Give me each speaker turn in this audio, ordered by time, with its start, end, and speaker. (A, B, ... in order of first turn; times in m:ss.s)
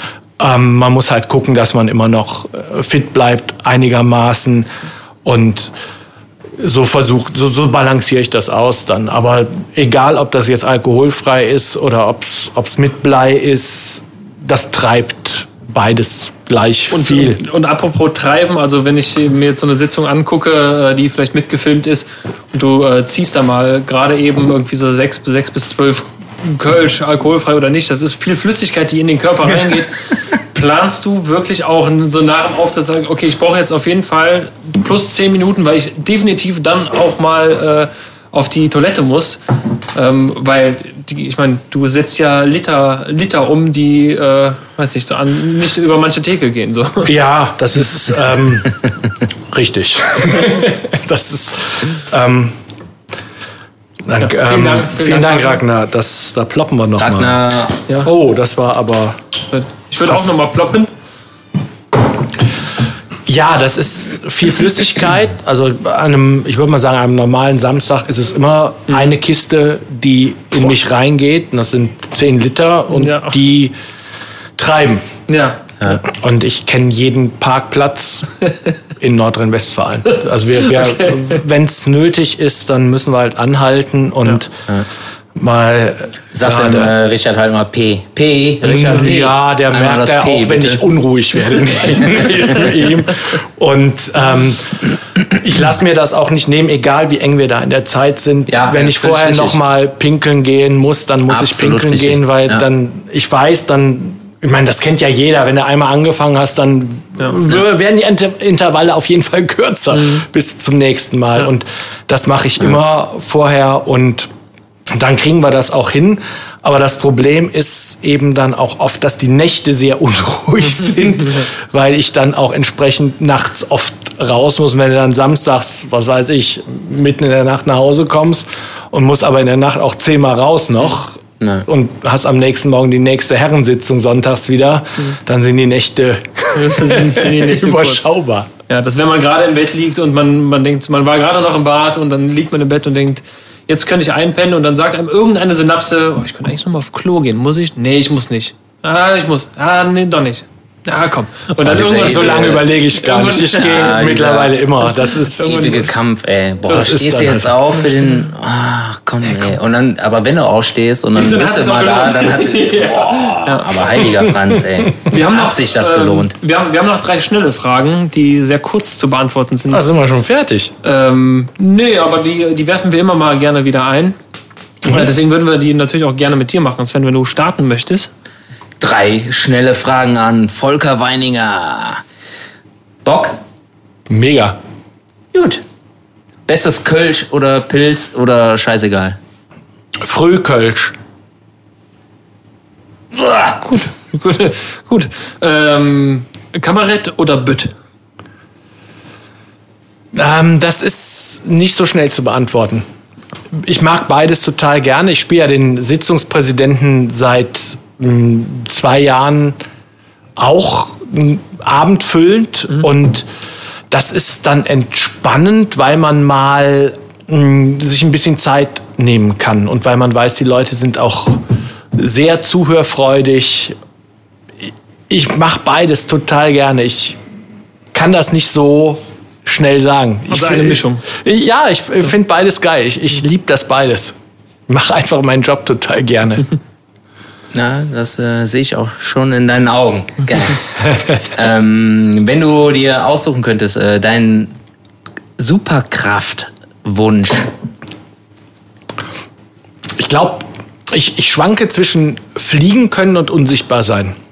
0:00.4-0:04.7 A
0:05.2-0:05.7 A
0:06.6-0:17.4 A
0:16.9-0:39.4 B
0:39.9-0:47.1 B
0:47.0-0:48.8 A
0:49.5-0:52.6 A
0:54.0-0:57.4 A
0:54.2-0:55.6 B
0:57.0-0:57.8 C
0:58.0-0:59.2 A
0:59.5-1:00.9 B
1:00.0-1:00.3 A
1:03.2-1:13.7 A
1:12.9-1:13.4 B
1:14.6-1:15.1 A
1:15.3-1:15.6 B
1:16.0-1:18.3 A
1:19.0-1:24.7 A
1:20.7-1:21.3 B
1:25.3-1:26.9 A
1:26.3-1:30.8 C
1:28.6-1:54.3 A
1:38.5-1:39.6 C
1:41.3-1:42.6 C
1:50.0-1:50.2 B
1:54.9-2:18.5 A
2:11.4-2:11.6 C
2:16.5-2:18.0 B
2:18.7-2:33.7 B
2:31.6-2:32.6 C
2:31.7-2:35.7 A
2:33.5-2:34.6 C
2:35.3-2:35.9 B
2:35.4-2:46.3 C
2:36.7-2:37.6 A
2:41.1-2:43.8 B
2:45.1-2:49.8 B
2:49.7-2:50.7 A
2:50.8-2:54.2 B
2:54.8-2:58.1 B
2:58.8-3:02.0 C
3:03.0-3:03.4 C
3:04.1-3:04.6 A
3:05.3-3:05.6 C
3:06.5-3:09.2 C
3:10.0-3:10.9 A
3:13.2-3:13.6 C
3:13.7-3:17.7 B
3:20.1-3:22.8 A
3:23.5-3:29.6 A
3:30.4-3:33.3 A
3:33.9-3:41.4 A
3:41.9-3:43.7 A
3:44.6-3:47.2 A
3:47.9-3:54.1 A
3:50.3-3:51.0 B
3:54.7-3:56.5 A
3:57.5-4:00.6 C
4:01.2-4:04.5 C
4:05.4-4:07.5 C
4:10.0-4:14.2 A